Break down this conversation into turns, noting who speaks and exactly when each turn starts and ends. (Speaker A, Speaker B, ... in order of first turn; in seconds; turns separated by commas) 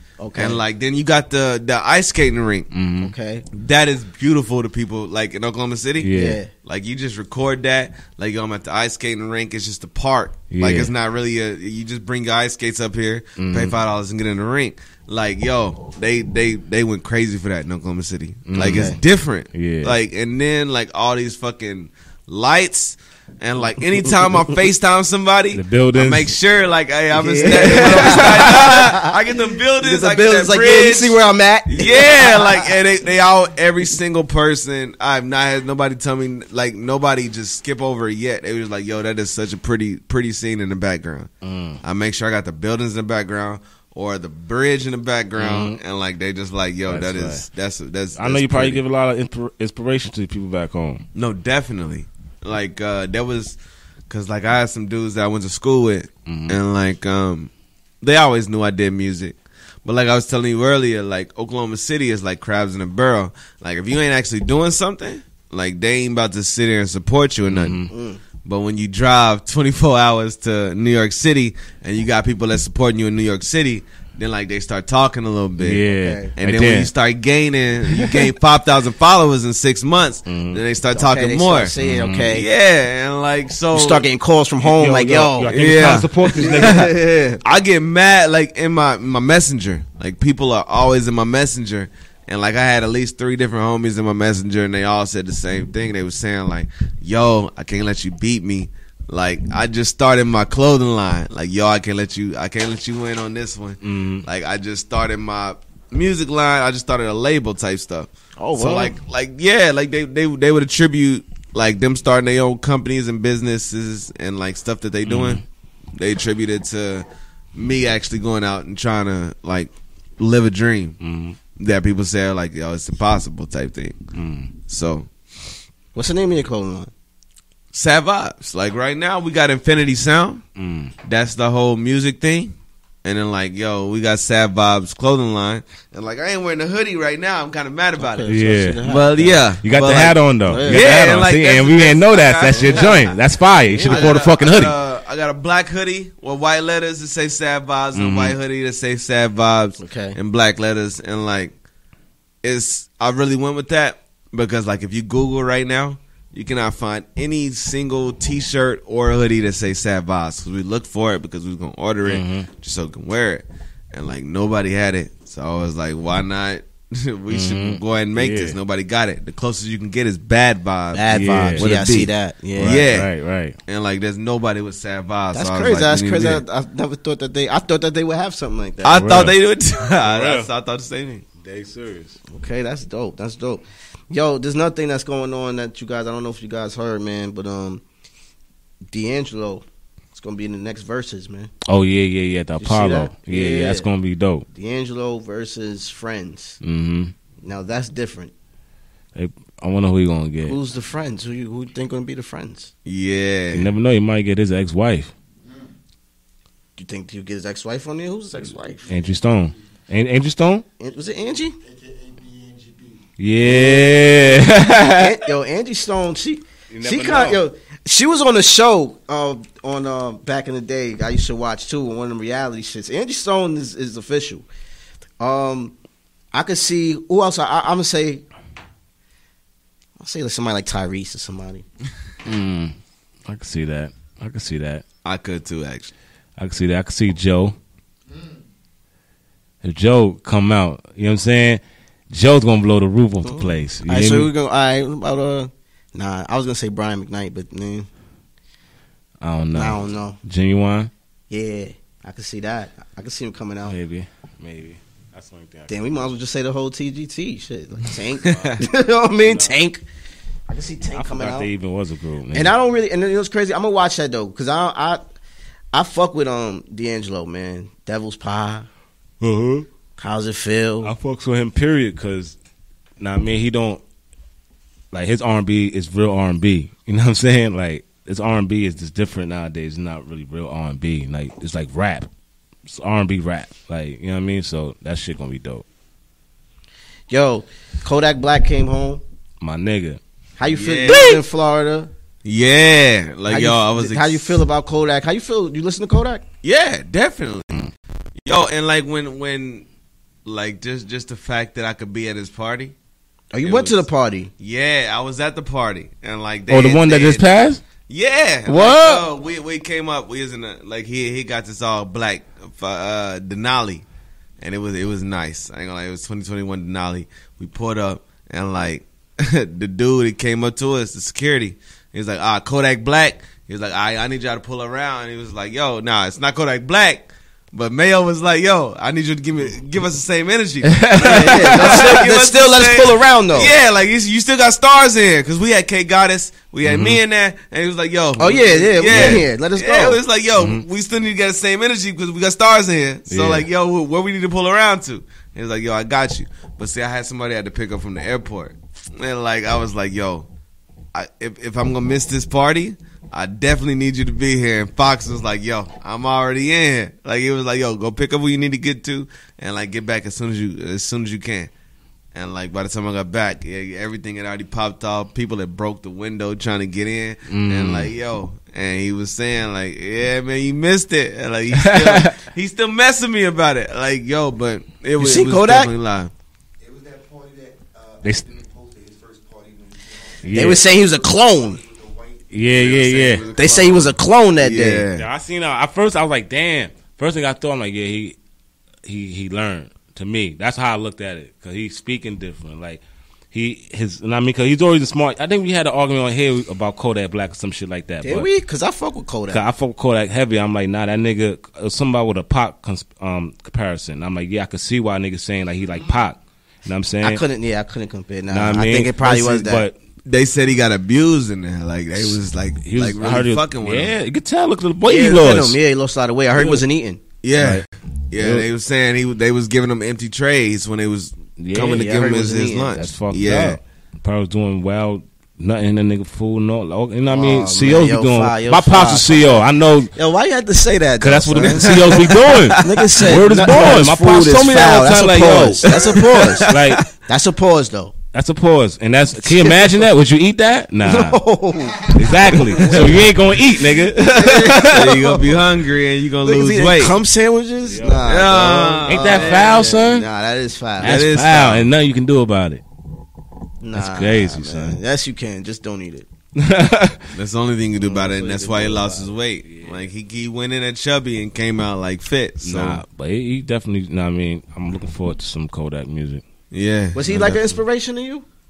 Speaker A: 0.2-0.6, Speaker B: 0.3-2.7, Speaker C: 2.7-3.1, Speaker A: 3.0-3.5, Speaker B: 3.5-6.1, Speaker C: 6.0-6.4, Speaker A: 6.1-6.5, Speaker B: 6.6-41.3, Speaker C: 10.5-10.9, Speaker C: 13.4-13.8, Speaker C: 18.5-18.9, Speaker A: 18.7-19.0, Speaker C: 19.5-19.9, Speaker C: 25.5-26.3, Speaker A: 27.1-29.1, Speaker C: 27.4-28.6, Speaker A: 29.8-32.7, Speaker C: 41.4-41.8, Speaker B: 41.8-48.8, Speaker C: 45.4-45.8, Speaker C: 46.9-47.4, Speaker C: 48.1-51.0, Speaker B: 51.1-53.6, Speaker B: 54.1-57.5, Speaker C: 56.3-56.6, Speaker B: 58.0-67.9, Speaker C: 67.5-67.9, Speaker A: 67.9-68.2, Speaker B: 68.4-75.8, Speaker C: 75.6-76.9, Speaker A: 76.0-76.3, Speaker B: 76.3-81.7, Speaker C: 80.3-80.6, Speaker A: 80.9-82.5, Speaker C: 81.8-82.3, Speaker B: 82.3-84.0, Speaker A: 83.7-87.4, Speaker C: 84.6-86.9, Speaker B: 85.5-115.4, Speaker C: 103.8-104.2, Speaker A: 108.4-109.0, Speaker C: 115.0-115.4, Speaker B: 115.9-121.0, Speaker C: 121.0-121.4, Speaker B: 121.5-124.0, Speaker C: 124.1-124.5, Speaker B: 124.7-125.1, Speaker A: 125.9-126.9, Speaker B: 127.7-130.4, Speaker C: 130.6-130.9, Speaker B: 131.0-143.1, Speaker A: 138.0-139.4, Speaker C: 138.3-138.8, Speaker C: 139.6-144.7, Speaker A: 140.4-140.9, Speaker A: 143.7-144.1, Speaker B: 143.8-151.5, Speaker C: 147.9-148.3, Speaker A: 149.8-150.2, Speaker B: 152.4-173.1, Speaker C: 162.0-162.5, Speaker C: 167.3-168.6, Speaker A: 170.9-172.8, Speaker C: 171.1-171.7, Speaker C: 172.6-173.5, Speaker B: 173.7-176.4, Speaker A: 175.3-179.0, Speaker B: 178.8-181.2, Speaker C: 178.9-179.3, Speaker C: 180.0-180.5, Speaker C: 181.4-182.2, Speaker A: 182.3-187.8, Speaker A: 188.9-191.5, Speaker C: 191.7-194.4, Speaker A: 192.6-193.9, Speaker A: 194.5-196.6, Speaker C: 196.6-197.1, Speaker A: 197.4-198.3, Speaker C: 199.1-200.6, Speaker A: 200.4-202.7, Speaker B: 202.8-203.7, Speaker C: 203.5-205.1, Speaker A: 206.8-208.8, Speaker C: 208.9-210.6, Speaker A: 210.8-211.6, Speaker D: 211.7-213.0, Speaker C: 213.2-215.2, Speaker A: 213.4-224.4, Speaker C: 216.7-217.4, Speaker A: 225.2-225.7, Speaker A: 226.3-228.2, Speaker A: 230.0-231.6, Speaker C: 232.2-232.7, Speaker C: 233.3-234.8, Speaker B: 235.0-235.9, Speaker C: 236.4-237.6, Speaker C: 239.6-244.3, Speaker A: 243.2-247.9, Speaker C: 249.2-250.9, Speaker A: 249.5-250.2, Speaker A: 251.3-253.8, Speaker C: 253.7-255.8, Speaker A: 255.7-259.8, Speaker C: 258.2-258.6, Speaker B: 258.2-258.6, Speaker C: 259.2-259.5, Speaker A: 260.5-261.5, Speaker C: 260.9-262.5, Speaker A: 262.3-265.0, Speaker A: 265.7-268.7, Speaker C: 269.2-269.6, Speaker A: 270.0-270.9, Speaker C: 270.8-272.4, Speaker C: 273.0-273.8, Speaker C: 274.9-282.1, Speaker C: 282.6-285.6, Speaker A: 287.1-289.0, Speaker C: 289.4-290.0, Speaker A: 290.4-291.9, Speaker B: 290.5-291.2, Speaker B: 292.2-294.4, Speaker A: 293.3-296.2, Speaker B: 296.4-297.6, Speaker B: 298.2-299.6, Speaker B: 300.2-302.7, Speaker A: 303.3-304.3, Speaker B: 303.4-303.8, Speaker B: 304.4-307.2, Speaker C: 306.5-307.6, Speaker B: 307.9-313.8, Speaker C: 308.4-309.1, Speaker B: 314.4-350.3, Speaker C: 330.6-331.9, Speaker A: 330.9-333.5, Speaker C: 336.6-337.0, Speaker A: 338.2-340.0, Speaker C: 338.9-339.2, Speaker C: 340.4-340.6, Speaker C: 343.1-343.4, Speaker B: 350.9-361.5, Speaker B: 362.1-376.1, Speaker C: 367.3-367.9, Speaker C: 371.5-372.1, Speaker A: 375.0-375.7, Speaker D: 376.6-382.2, Speaker C: 378.0-378.3, Speaker C: 380.2-380.6, Speaker A: 380.3-381.6, Speaker C: 382.3-383.2, Speaker B: 382.5-385.1, Speaker A: 383.3-384.9, Speaker C: 384.9-388.1, Speaker C: 388.8-398.3, Speaker A: 398.0-399.4, Speaker C: 399.3-407.2, Speaker A: 407.0-409.6, Speaker C: 408.3-409.7, Speaker B: 410.0-413.9, Speaker C: 412.6-415.6, Speaker A: 414.8-417.0, Speaker C: 416.4-416.6, Speaker B: 417.2-423.6, Speaker C: 417.4-417.6, Speaker C: 418.2-418.4, Speaker C: 421.4-422.0, Speaker A: 421.6-422.8, Speaker C: 422.7-429.9, Speaker A: 427.1-437.9, Speaker C: 431.0-436.8, Speaker B: 435.7-436.8, Speaker C: 438.1-441.2, Speaker A: 439.2-439.8, Speaker A: 440.8-443.1, Speaker C: 441.9-445.0, Speaker B: 442.6-442.9, Speaker A: 443.8-445.3, Speaker B: 444.6-447.0, Speaker A: 446.2-451.0, Speaker C: 447.6-448.3, Speaker B: 448.0-449.6, Speaker C: 448.9-450.1, Speaker B: 450.8-451.7, Speaker C: 450.8-452.6, Speaker A: 453.6-456.1, Speaker C: 453.7-454.8, Speaker C: 456.4-457.1, Speaker B: 457.1-462.8, Speaker A: 457.8-459.1, Speaker C: 459.4-459.8, Speaker C: 462.4-466.2, Speaker B: 466.5-467.4, Speaker A: 466.9-468.2